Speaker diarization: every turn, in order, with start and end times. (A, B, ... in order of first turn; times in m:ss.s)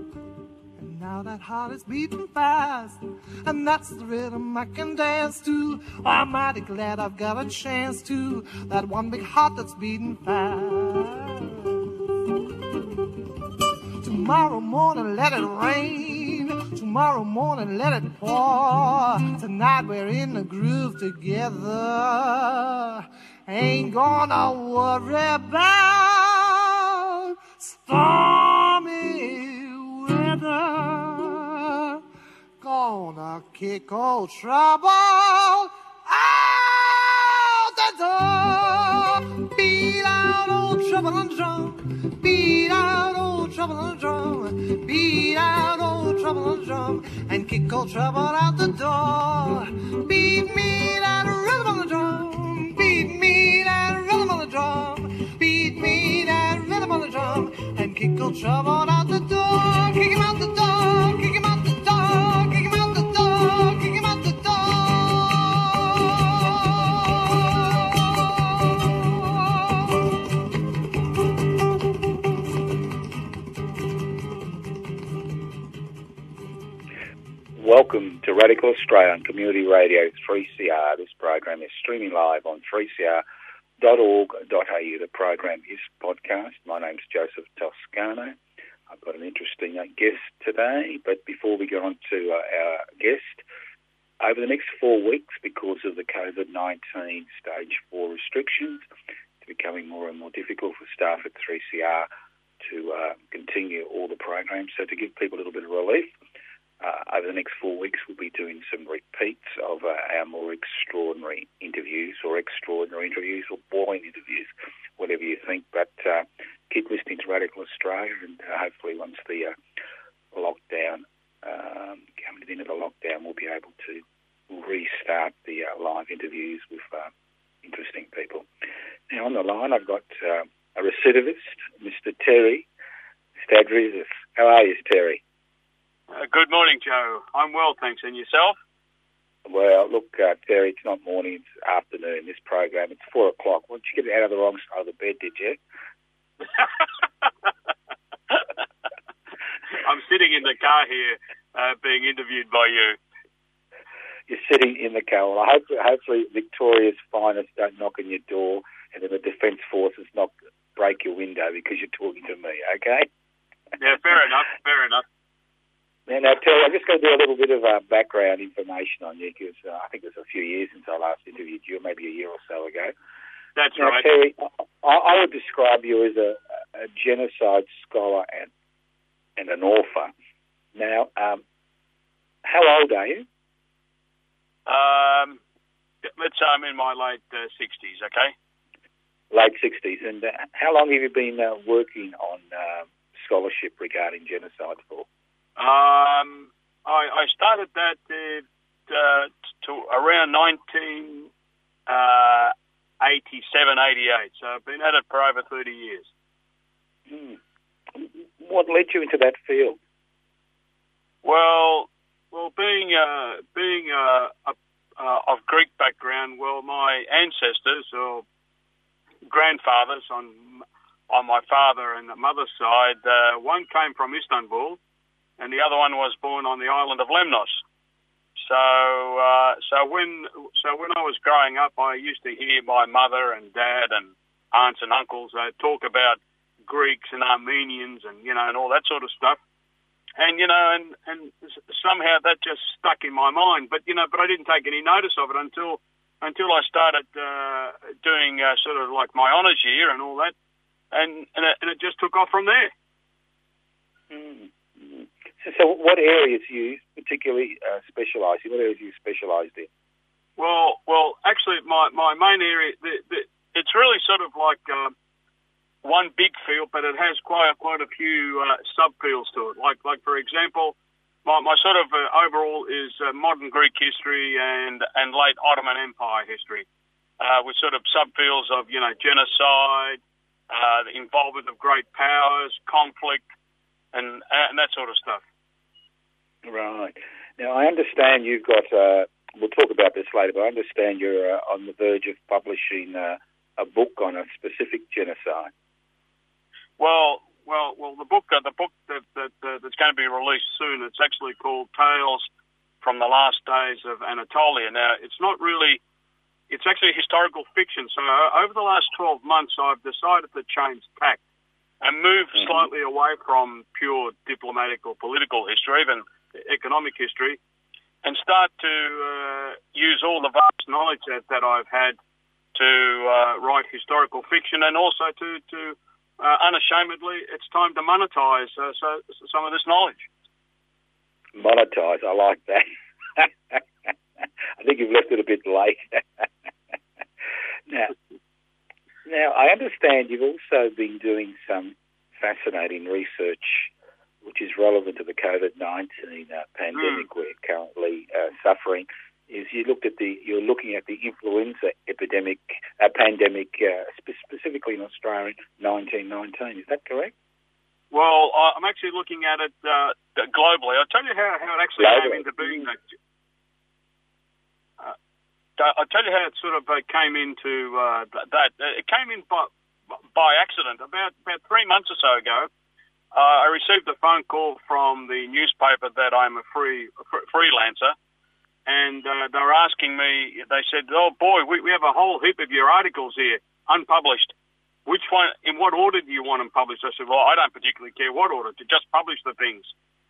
0:00.8-0:11.8 A
0:14.0-0:32.0 A
0:32.6-1:10.1 A
1:17.6-1:23.2 B
1:23.8-1:28.4 B
1:28.9-1:33.4 B
1:34.2-1:38.8 B
1:39.4-1:42.1 B
1:42.6-1:46.1 B
1:46.8-1:59.6 B
2:00.3-2:07.1 B
2:07.6-2:08.5 B
2:09.1-2:12.7 B
2:13.4-2:15.2 B
2:16.1-2:18.6 C
2:19.4-2:25.6 B
2:29.8-2:33.0 C
2:34.3-2:43.1 B
2:43.8-2:45.0 C
2:46.1-2:52.9 B
2:53.6-2:54.1 C
2:53.8-2:58.5 B
2:59.4-3:00.1 B
3:00.7-3:01.4 B
3:02.4-3:03.2 B
3:04.7-3:05.4 C
3:06.0-3:08.3 C
3:09.3-3:15.0 B
3:15.6-3:21.3 C
3:21.9-3:26.1 C
3:27.1-3:27.4 B
3:27.9-3:29.8 B
3:31.2-3:38.2 C
3:39.2-3:44.8 C
3:45.4-3:47.6 C
3:48.4-3:59.4 C
4:00.2-4:10.3 C
4:10.9-4:12.7 C
4:14.1-4:19.7 B
4:20.4-4:24.9 C
4:25.8-4:36.6 C
4:37.2-4:40.0 C
4:40.5-4:43.2 C
4:43.9-4:45.2 C
4:46.4-4:55.5 B
4:56.8-5:02.3 C
5:02.8-5:05.8 C
5:06.5-5:11.2 C
5:11.8-5:17.4 C
5:12.3-5:12.6 B
5:18.0-5:22.0 C
5:22.5-5:30.1 C
5:31.3-5:33.6 B
5:34.6-5:36.3 B
5:37.7-5:37.9 B
5:39.0-5:43.7 B
5:44.2-5:57.1 B
5:46.7-5:47.0 C
5:57.9-6:02.8 C
6:01.8-6:02.6 B
6:05.6-6:09.5 C
6:10.1-6:12.5 C
6:13.1-6:17.9 C
6:18.6-6:24.3 C
6:24.8-6:29.7 C